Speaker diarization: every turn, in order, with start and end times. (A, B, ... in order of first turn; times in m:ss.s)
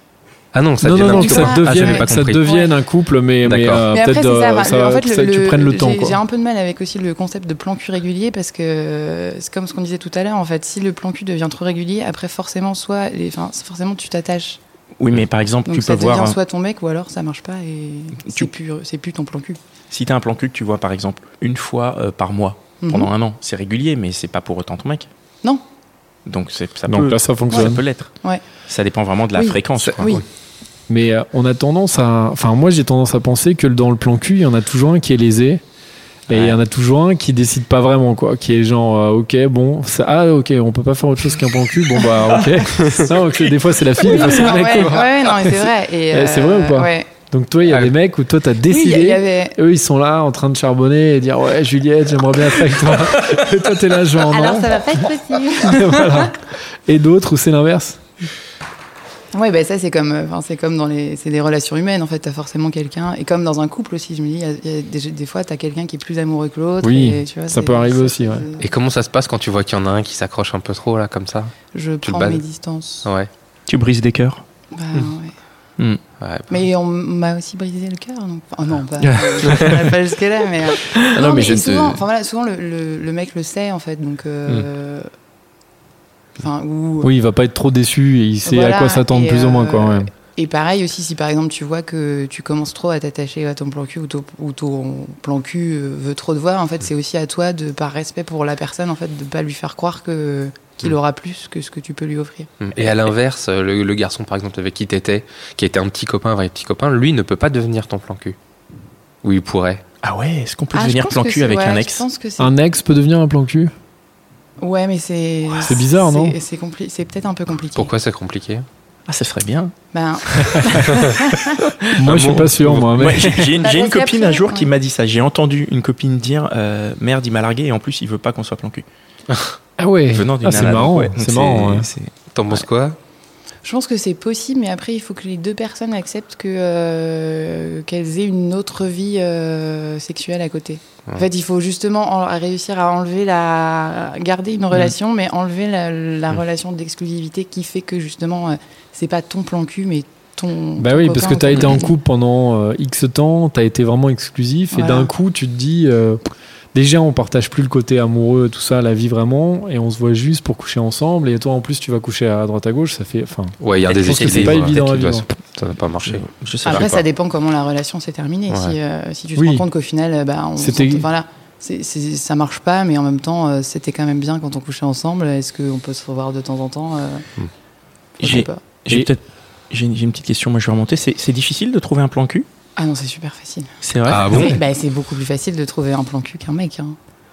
0:00.5-0:02.4 A
0:00.8-0:06.2 B
0:01.0-0:02.7 C
0:03.4-0:03.8 A
0:03.9-0:14.6 C
0:15.0-0:16.4 D
0:15.6-0:19.6 C
0:19.9-0:25.1 D
0:22.8-0:23.1 C
0:26.2-0:28.1 D
0:26.9-0:27.8 B
0:28.7-0:30.2 D
0:29.3-0:30.2 C
0:30.9-0:35.6 B
0:36.3-0:58.0 B
0:36.3-0:36.5 A
0:42.0-0:42.5 C
0:42.8-0:43.1 A
0:44.0-0:47.1 C
0:47.7-0:47.9 A
0:48.7-0:49.6 C
0:54.3-0:56.3 C
0:59.3-1:08.6 C
1:06.8-1:08.5 B
1:08.6-1:12.4 A
1:11.7-1:13.1 C
1:13.0-1:13.3 A
1:13.7-1:14.4 D
1:14.7-1:15.4 C
1:16.2-1:16.5 A
1:16.5-1:25.1 C
1:19.4-1:19.8 A
1:20.9-1:21.5 A
1:21.1-1:22.0 D
1:26.4-1:27.1 C
1:27.0-1:30.1 B
1:28.4-1:42.5 C
1:42.6-1:48.4 A
1:49.2-1:49.8 A
1:50.0-1:52.0 D
1:50.7-1:52.5 C
1:52.4-1:53.7 B
1:54.6-1:57.9 C
1:55.5-1:56.4 B
1:57.7-1:58.6 A
1:59.1-1:59.7 D
1:59.9-2:01.6 C
2:01.9-2:02.9 A
2:01.9-2:03.6 B
2:02.1-2:08.8 D
2:03.6-2:04.7 C
2:09.8-2:11.9 B
2:10.1-2:12.6 D
2:12.3-2:13.0 A
2:13.6-2:31.9 C
2:30.8-2:36.2 B
2:34.7-2:35.1 C
2:36.7-2:45.3 B
2:43.6-2:47.0 A
2:43.9-2:45.2 D
2:46.1-2:46.9 D
2:46.6-2:57.2 C
2:48.5-2:48.8 A
2:49.4-2:49.6 B
2:50.6-2:51.1 B
2:58.2-2:58.6 C
2:58.2-3:02.4 D
3:02.8-3:03.7 C
3:03.8-3:04.5 D
3:04.1-3:04.6 A
3:04.3-3:07.0 C